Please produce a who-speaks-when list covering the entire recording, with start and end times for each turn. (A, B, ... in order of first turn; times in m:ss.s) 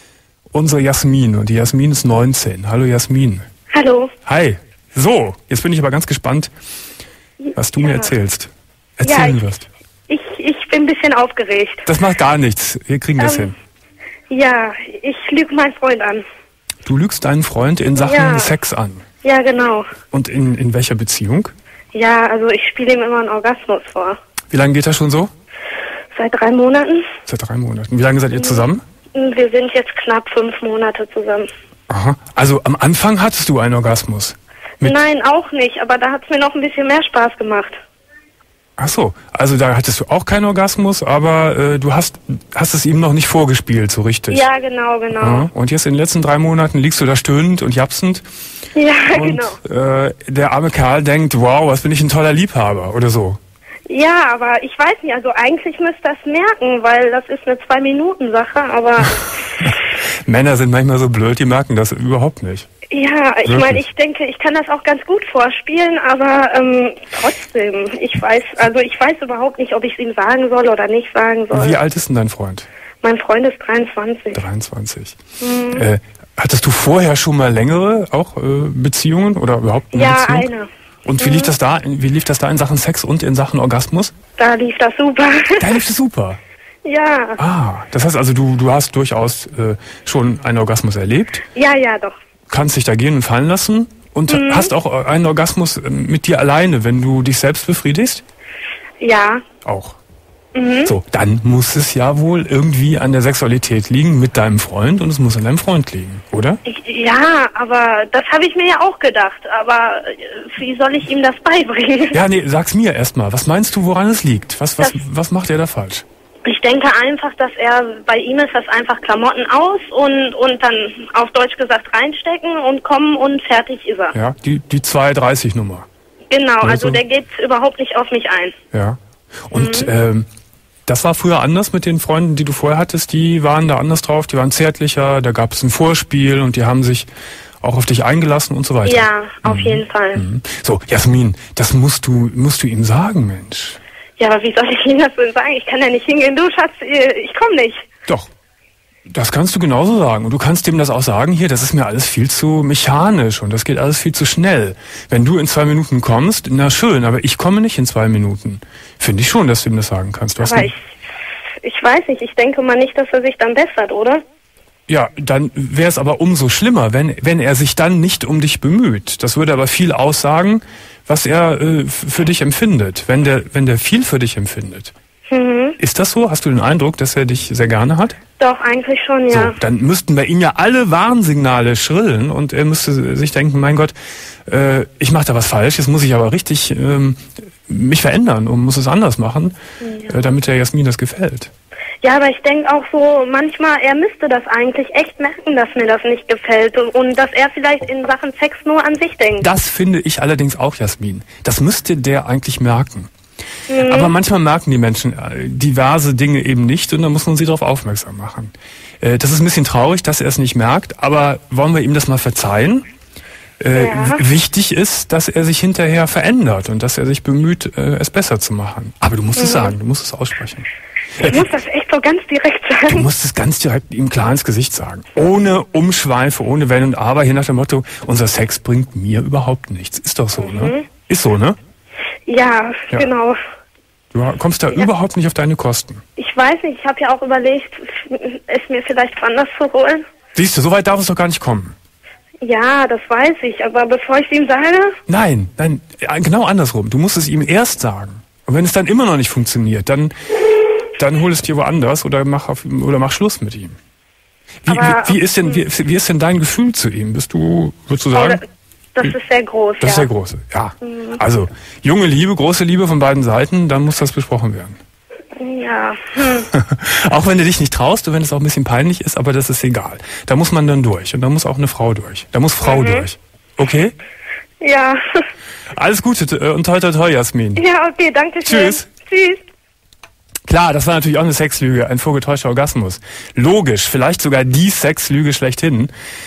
0:00.5-0:03.4 A
0:03.7-0:04.1 B
0:04.2-0:06.5 A
0:07.4-0:08.1 B
0:07.6-0:09.7 A
0:09.0-0:09.4 B
0:10.1-0:11.9 B
0:11.8-0:13.5 A
0:13.2-0:13.5 B
0:14.3-0:16.2 B
0:16.8-0:19.0 A
0:18.0-0:18.5 B
0:19.2-0:19.9 B
0:20.1-0:21.5 A
0:21.9-0:24.2 B
0:24.5-0:25.3 A
0:26.1-0:27.1 B
0:27.2-0:28.8 A
0:28.3-0:31.5 B
0:31.9-0:35.0 A
0:34.8-0:37.8 B
0:38.8-0:44.5 A
0:44.3-0:45.5 B
0:45.1-0:48.2 A
0:48.7-0:49.6 B
0:49.1-0:53.4 A
0:53.9-0:59.2 B
0:59.2-1:02.7 A
1:02.9-1:11.8 B
1:03.4-1:03.8 A
1:11.5-1:12.7 A
1:13.0-1:14.4 B
1:14.3-1:15.2 A
1:15.4-1:15.9 B
1:15.7-1:20.5 A
1:19.9-1:20.7 B
1:21.0-1:24.1 A
1:21.2-1:21.5 B
1:24.4-1:25.8 B
1:25.6-1:26.4 A
1:26.8-1:27.4 B
1:27.4-1:31.4 A
1:31.5-1:32.1 B
1:32.5-1:38.2 A
1:34.3-1:34.7 B
1:39.0-1:39.4 B
1:39.6-1:40.0 A
1:40.5-1:40.9 B
1:40.8-1:46.6 A
1:46.6-1:52.2 B
1:52.1-1:56.0 A
1:56.4-2:04.1 B
2:04.1-2:05.9 A
2:06.3-2:08.5 B
2:06.6-2:07.0 A
2:08.7-2:10.3 A
2:09.5-2:09.9 B
2:10.9-2:17.1 A
2:17.6-2:23.8 A
2:18.8-2:20.2 B
2:24.2-2:27.9 B
2:29.1-2:40.7 A
2:40.4-2:40.8 B
2:41.6-2:44.2 B
2:44.9-2:54.9 A
2:55.3-2:55.8 B
2:55.8-2:58.2 A
2:58.4-2:59.6 B
2:59.3-3:03.9 A
3:04.5-3:09.6 A
3:09.8-3:10.3 B
3:10.1-3:11.5 A
3:12.0-3:19.5 B
3:19.4-3:23.1 A
3:23.7-3:24.1 B
3:23.8-3:32.8 A
3:33.6-3:41.5 A
3:33.7-3:34.2 B
3:39.4-3:39.8 B
3:41.2-3:43.0 B
3:42.9-3:51.6 A
3:50.4-3:50.9 B
3:52.3-3:53.4 B
3:54.1-3:56.0 A
3:56.2-4:00.0 B
4:00.3-4:01.7 A
4:02.4-4:05.0 B
4:05.1-4:10.1 A
4:11.0-4:13.8 A
4:14.6-4:18.4 A
4:14.7-4:15.6 B
4:18.1-4:18.4 B
4:18.9-4:20.1 B
4:19.8-4:24.8 A
4:20.8-4:21.2 B
4:25.4-4:26.5 B
4:26.2-4:33.9 A
4:32.6-4:33.1 B
4:34.6-4:35.0 B
4:35.7-4:37.6 A
4:37.6-4:39.4 B
4:38.4-4:38.9 A
4:40.5-4:45.9 A